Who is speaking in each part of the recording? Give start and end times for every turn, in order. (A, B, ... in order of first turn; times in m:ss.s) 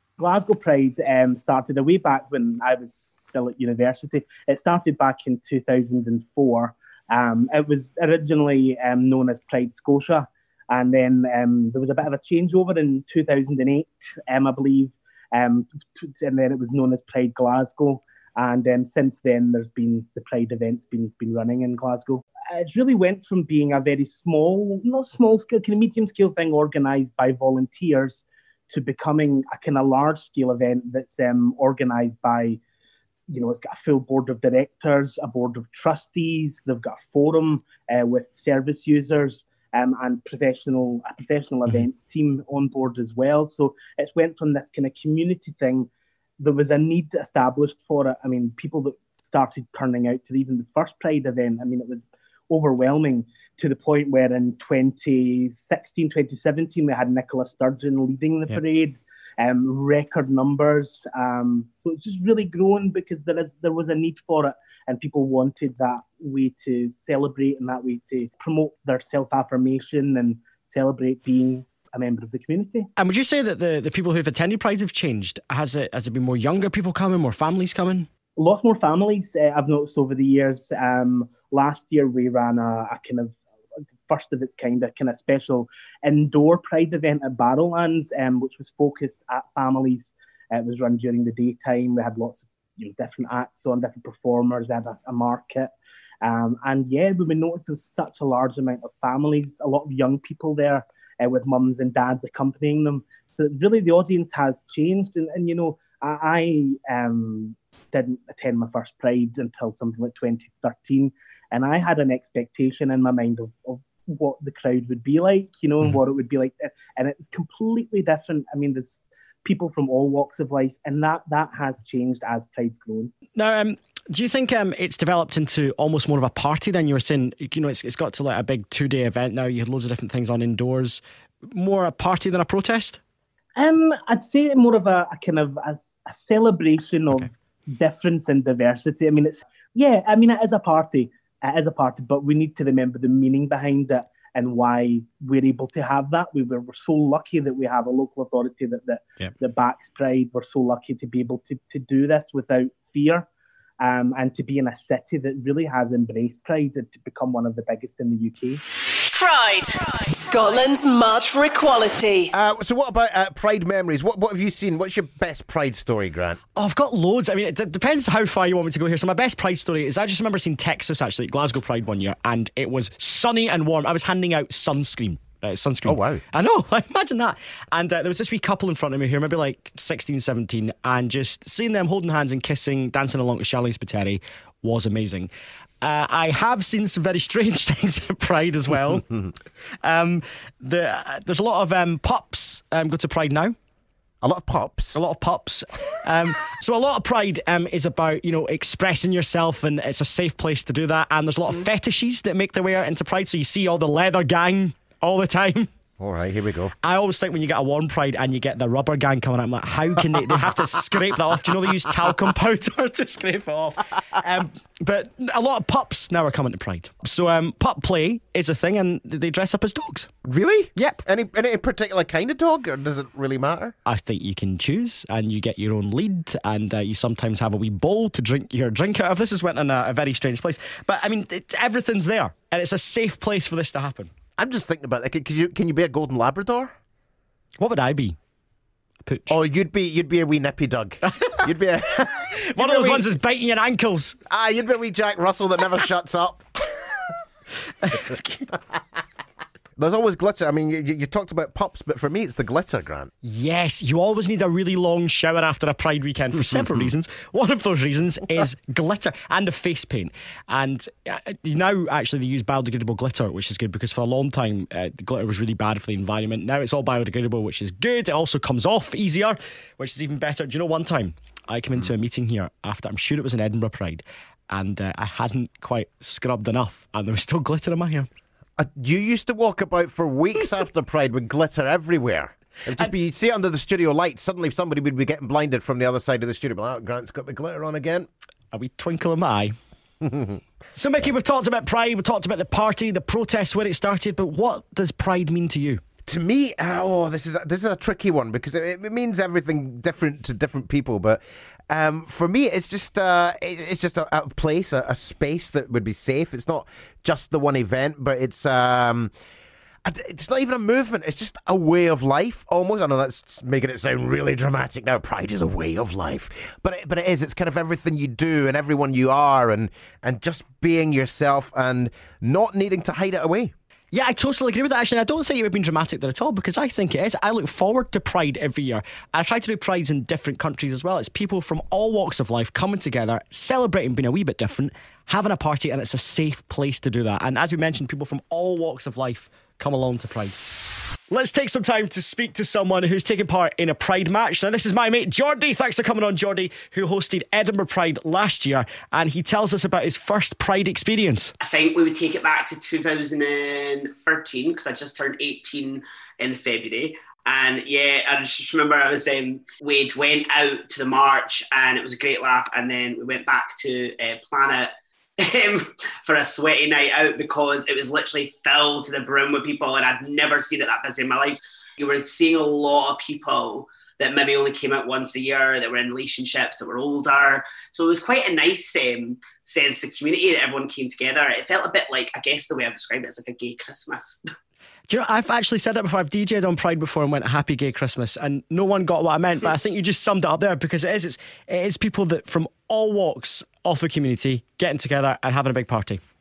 0:00.2-0:32.6 A
0:33.3-0:45.9 A
0:46.4-1:12.9 A
1:13.0-1:18.1 B
1:18.4-1:23.4 A
1:24.1-2:03.1 A
2:03.4-2:13.0 B
2:13.6-2:33.3 A
2:33.8-2:38.6 A
2:39.1-2:42.3 C
2:42.3-2:46.4 D
2:46.6-3:05.3 B
2:55.9-2:56.2 D
3:05.8-3:09.1 B
3:09.8-3:13.6 B
3:14.2-3:15.0 D
3:15.0-3:25.7 B
3:26.0-3:26.8 D
3:26.8-3:40.1 B
3:40.2-3:43.8 D
3:40.8-3:41.0 B
3:43.9-3:54.1 B
3:54.4-3:56.8 D
3:57.6-3:58.2 B
3:59.0-3:59.4 B
3:59.3-4:03.1 D
4:02.5-4:04.2 B
4:04.3-4:06.6 D
4:07.8-4:08.5 B
4:09.8-4:13.1 D
4:13.2-4:38.1 B
4:38.6-4:48.1 D
4:48.5-4:49.6 B
4:50.8-4:55.8 B
4:56.0-5:09.1 D
5:09.8-5:23.5 D
5:23.9-5:40.4 B
5:41.1-5:51.3 B
5:51.4-6:24.2 E
6:24.9-6:36.0 B